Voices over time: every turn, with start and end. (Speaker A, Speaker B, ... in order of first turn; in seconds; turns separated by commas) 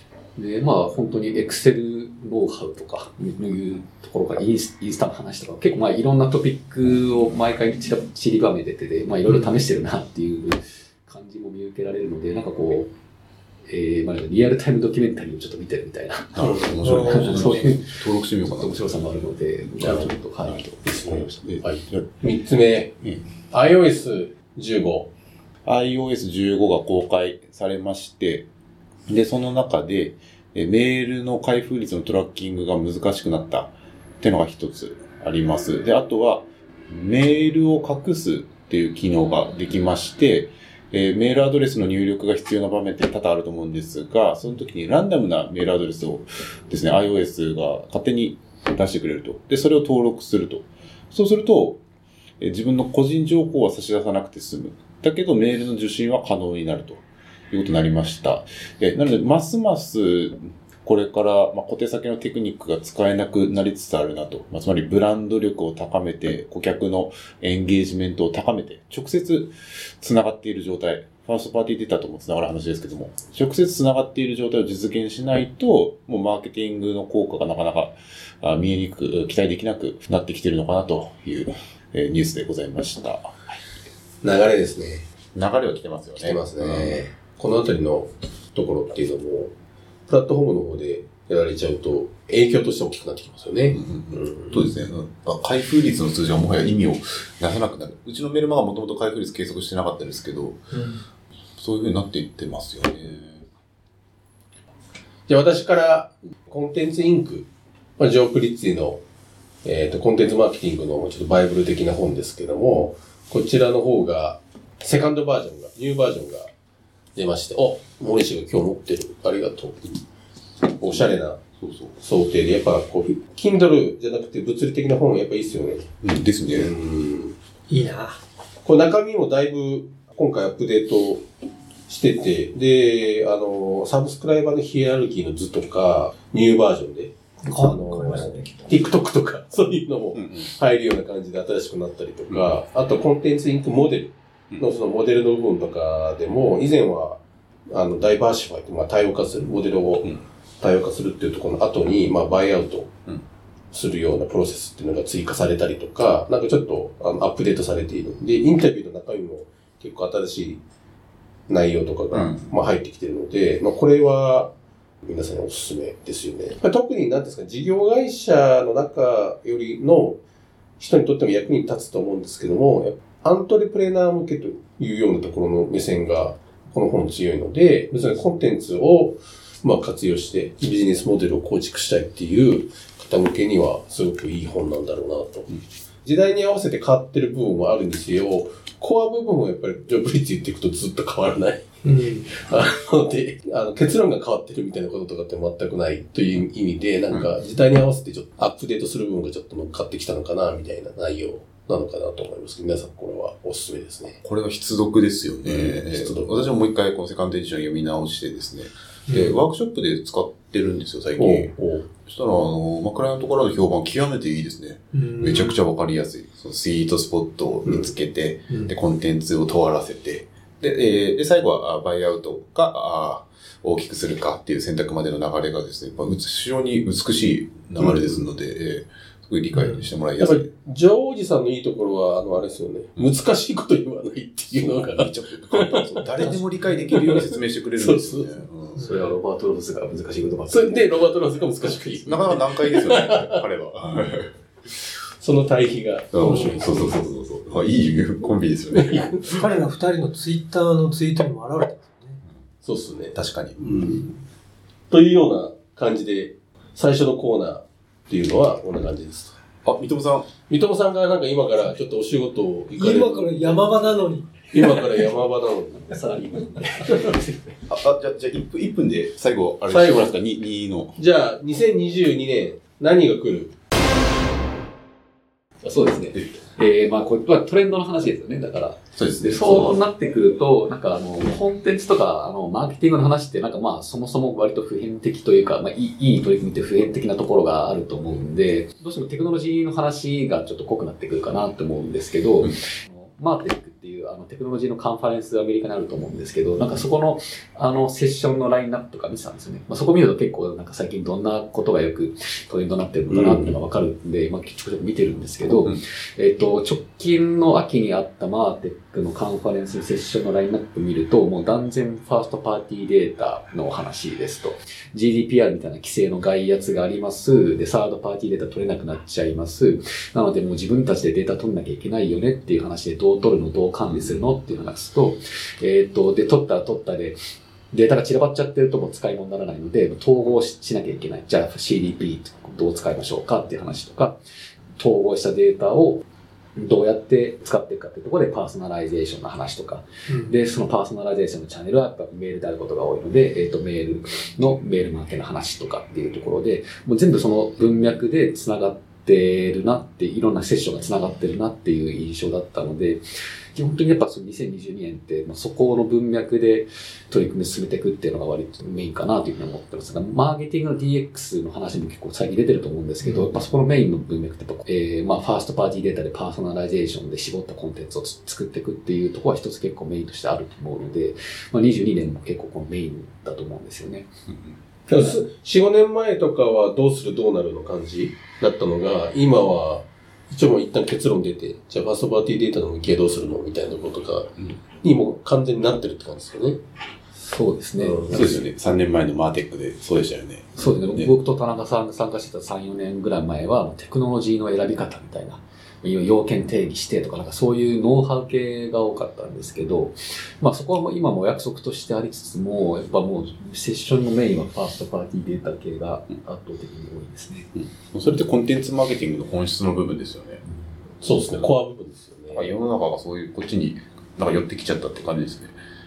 Speaker A: 0.3-12.9, Speaker B: 9.3-9.5, Speaker A: 13.7-21.2, Speaker C: 16.3-18.8, Speaker D: 16.4-16.8, Speaker B: 16.8-17.5, Speaker D: 19.8-20.1, Speaker C: 20.4-22.1, Speaker D: 20.8-25.1, Speaker C: 25.6-28.5, Speaker C: 29.1-51.8, Speaker C: 52.4-83.3, Speaker D: 84.2-85.1, Speaker C: 85.3-87.0, Speaker D: 86.2-89.5, Speaker D: 90.1-94.8, Speaker C: 93.7-100.7, Speaker B: 100.7-101.0, Speaker C: 101.6-103.4, Speaker D: 105.3-109.0, Speaker D: 109.6-116.5, Speaker D: 117.1-120.0, Speaker D: 120.7-121.4, Speaker C: 121.6-122.0, Speaker D: 122.0-125.9, Speaker C: 126.0-126.7, Speaker D: 126.5-127.3, Speaker B: 127.7-128.2, Speaker D: 128.6-131.2, Speaker D: 131.9-152.9, Speaker B: 137.4-138.8, Speaker C: 140.1-140.5, Speaker C: 142.3-142.6, Speaker D: 153.7-160.6, Speaker D: 161.5-164.5, Speaker C: 162.1-162.5, Speaker D: 165.0-170.2, Speaker D: 170.8-204.2, Speaker B: 191.8-192.3, Speaker C: 204.2-211.5, Speaker D: 205.4-206.4, Speaker B: 209.1-209.4, Speaker D: 211.2-211.8, Speaker C: 212.0-230.5, Speaker B: 214.9-215.6, Speaker D: 217.7-217.9, Speaker D: 227.8-228.2, Speaker B: 229.5-229.9, Speaker D: 230.2-238.4, Speaker C: 234.5-238.8, Speaker A: 238.8-241.0, Speaker D: 240.5-243.4, Speaker C: 242.0-244.8, Speaker D: 245.2-246.9, Speaker C: 246.1-249.3, Speaker B: 246.2-246.6, Speaker D: 248.7-249.3, Speaker B: 249.2-252.2, Speaker D: 252.6-254.1, Speaker C: 253.1-254.1, Speaker D: 254.9-259.4, Speaker C: 259.6-260.3, Speaker D: 260.5-267.2, Speaker B: 262.8-264.8, Speaker A: 265.7-267.6, Speaker C: 267.7-271.0, Speaker D: 269.7-270.1, Speaker D: 271.0-273.5, Speaker A: 275.6-327.2, Speaker C: 278.9-279.8, Speaker D: 303.1-303.6, Speaker C: 323.9-324.2, Speaker A: 327.7-334.1, Speaker A: 334.8-336.0, Speaker A: 336.6-353.0, Speaker B: 340.1-340.3, Speaker A: 353.5-374.1, Speaker B: 363.0-363.3, Speaker C: 374.3-374.5, Speaker D: 374.9-386.6, Speaker A: 387.2-388.2, Speaker D: 387.8-388.3, Speaker C: 388.1-391.1, Speaker A: 390.6-407.5, Speaker C: 407.5-410.4, Speaker D: 411.0-412.5, Speaker C: 412.3-415.6